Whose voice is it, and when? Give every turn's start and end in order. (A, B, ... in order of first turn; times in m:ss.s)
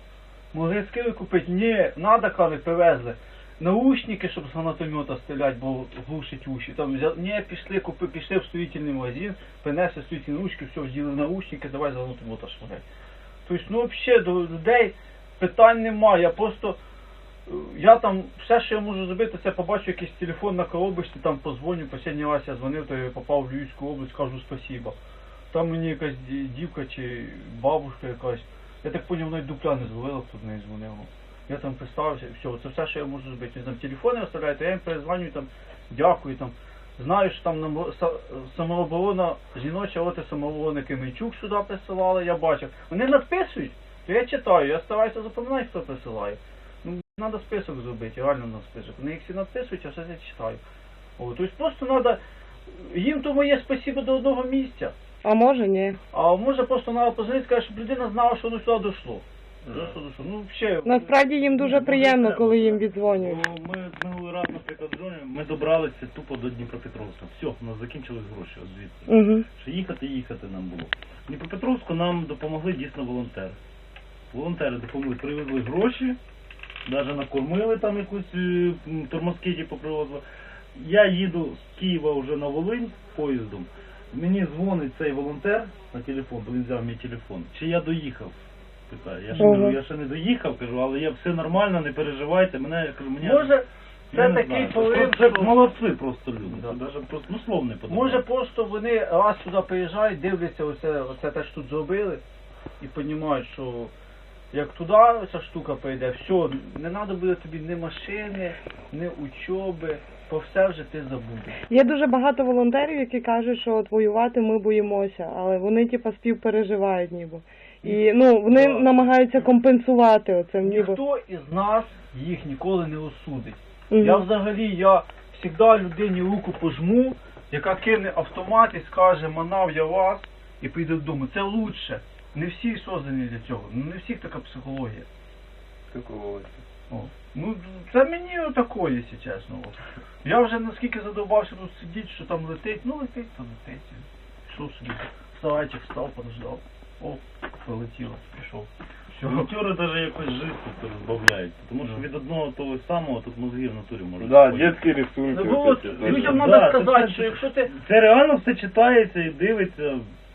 0:00.5-0:12.8 A
0:13.4-0:16.8 A
0:17.4-0:25.0 A
0:25.5-0:50.6 A
0:51.2-0:54.9 A
0:55.2-0:56.0 B
0:56.1-1:01.1 A
0:59.7-0:59.9 C
1:00.8-1:03.4 B
1:01.4-1:13.6 C
1:09.1-1:09.4 B
1:14.3-1:16.2 C
1:16.8-1:20.2 C
1:20.7-1:28.4 C
1:28.9-1:33.5 C
1:29.3-1:29.8 B
1:33.2-1:35.6 A
1:34.1-1:38.2 C
1:36.4-1:36.8 A
1:37.9-1:42.2 A
1:42.8-1:43.9 A
1:44.5-1:51.6 A
1:51.7-2:01.0 B
1:57.8-1:59.2 A
2:00.6-2:15.0 A
2:03.9-2:04.2 B
2:15.9-2:16.6 D
2:16.9-2:29.5 A
2:29.2-2:34.8 C
2:34.2-2:36.4 D
2:35.3-2:37.7 A
2:36.0-2:40.1 C